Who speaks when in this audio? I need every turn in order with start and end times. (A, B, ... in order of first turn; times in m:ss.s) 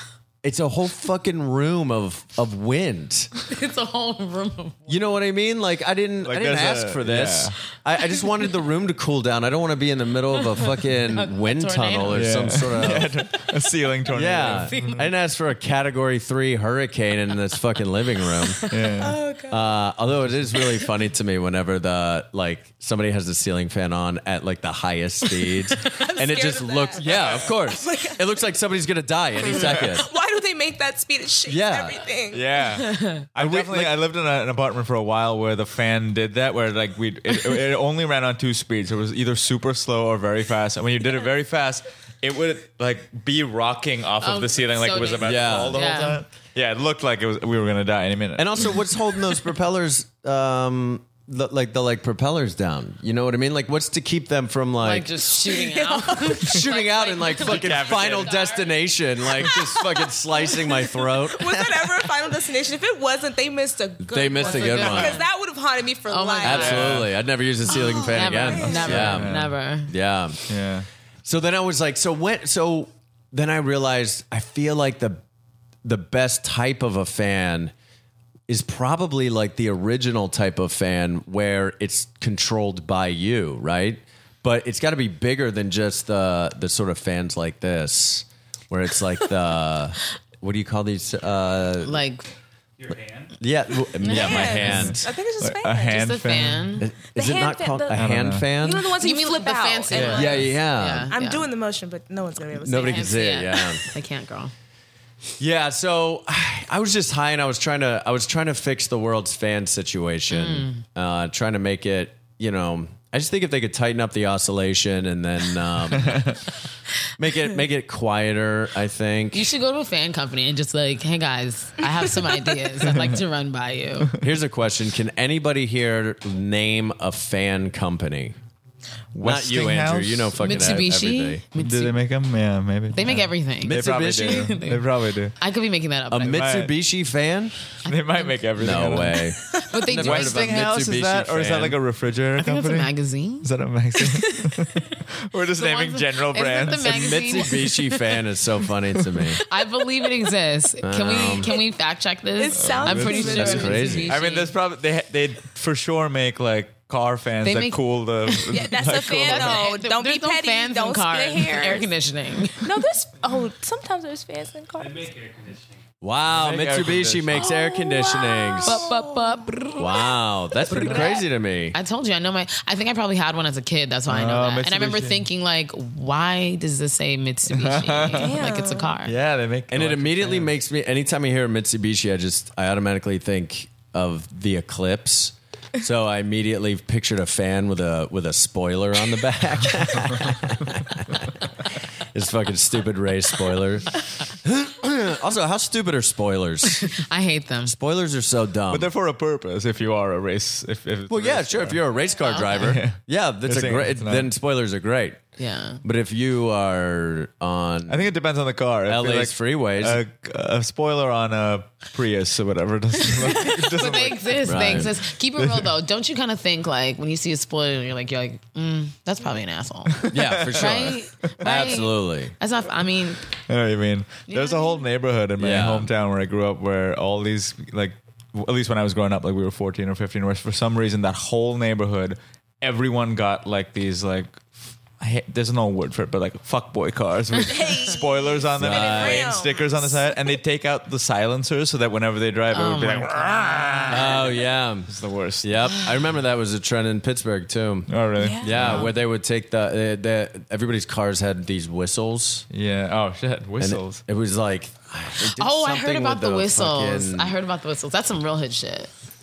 0:00.4-0:03.3 A
0:03.4-0:04.9 B
0:04.9-0:13.2 A
0:06.2-0:07.6 C
0:11.1-0:12.3 B
0:12.1-0:15.0 C
0:14.1-0:18.6 A
0:14.4-0:15.1 B
0:18.7-0:19.2 C
0:19.0-0:19.6 D
0:19.5-0:30.1 A
0:25.8-0:28.3 D
0:29.4-0:32.4 D
0:31.4-0:32.0 A
0:32.3-0:48.8 C
0:32.8-0:33.2 B
0:33.4-0:34.0 A
0:44.2-0:46.2 B
0:45.2-0:45.8 A
0:48.4-1:02.0 A
0:54.8-0:58.8 B
0:57.4-0:58.3 C
1:00.8-1:06.9 D
1:04.0-1:05.2 A
1:04.3-1:05.2 B
1:06.1-1:07.0 B
1:06.4-1:09.3 A
1:06.5-1:07.1 C
1:07.7-1:09.1 D
1:07.7-1:09.9 B
1:08.6-1:09.5 C
1:09.9-1:10.4 A
1:10.5-1:10.9 C
1:11.2-1:15.2 A
1:15.8-1:17.7 A
1:18.5-1:32.0 A
1:31.8-1:32.3 B
1:33.3-1:35.0 A
1:34.0-1:34.5 B
1:34.0-1:36.7 C
1:34.1-1:36.0 D
1:35.9-1:36.9 B
1:36.8-1:38.9 A
1:37.1-1:38.0 D
1:37.9-1:38.5 C
1:38.5-1:40.5 D
1:39.0-1:41.5 B
1:39.9-1:40.4 C
1:40.1-1:41.1 A
1:41.1-1:43.4 D
1:42.6-1:43.8 A
1:42.7-1:44.5 B
1:45.4-1:56.4 A
1:50.3-1:50.8 B
1:57.1-1:59.5 A
1:59.3-2:04.1 B
2:04.2-2:08.4 A
2:09.1-2:10.7 C
2:09.2-2:11.4 A
2:10.4-2:11.9 B
2:11.6-2:15.3 C
2:12.9-2:16.5 B
2:13.6-2:14.5 A
2:16.1-2:17.6 A
2:16.2-2:16.7 C
2:17.8-2:18.4 B
2:17.8-2:19.3 C
2:18.6-2:21.8 A
2:19.6-2:20.6 B
2:19.9-2:27.3 C
2:22.4-2:23.5 B
2:25.6-2:28.0 B
2:26.8-2:29.4 A
2:29.4-2:34.5 B
2:30.8-2:31.5 A
2:32.4-2:34.1 D
2:32.6-2:39.7 C
2:32.9-2:34.1 A
2:37.4-2:38.6 B
2:38.5-2:41.9 D
2:39.2-2:42.7 B
2:42.6-2:45.1 D
2:46.0-2:48.8 A
2:46.3-2:47.5 C
2:47.4-2:47.9 B
2:47.8-2:49.4 D
2:48.6-2:50.1 B
2:49.8-2:51.8 A
2:50.7-2:51.1 C
2:50.7-2:51.2 B
2:51.7-2:59.1 B
2:54.1-2:55.2 C
2:57.5-2:58.4 C
2:58.1-2:58.9 D
2:59.0-3:00.5 C
2:59.7-3:11.5 A
3:12.1-3:17.0 A
3:16.9-3:17.7 B
3:17.6-3:18.9 A
3:18.7-3:21.8 C
3:21.1-3:25.2 A
3:22.2-3:22.7 B
3:22.6-3:24.3 C
3:25.4-3:25.8 B
3:25.8-3:28.1 A
3:27.9-3:35.7 C
3:28.8-3:30.0 A
3:33.0-3:43.2 B
3:34.4-3:34.9 A
3:40.0-3:41.0 C
3:40.1-3:42.3 A
3:43.5-3:54.5 C
3:44.3-3:44.6 D
3:45.4-3:45.9 A
3:55.0-4:04.4 C
3:57.5-4:00.0 D
3:58.6-3:59.4 A
4:02.5-4:04.2 B
4:03.9-4:04.9 A
4:04.9-4:05.9 C
4:05.4-4:12.4 A
4:07.9-4:08.9 C
4:08.2-4:08.9 D
4:12.5-4:14.0 C
4:13.6-4:17.4 A
4:15.4-4:18.9 B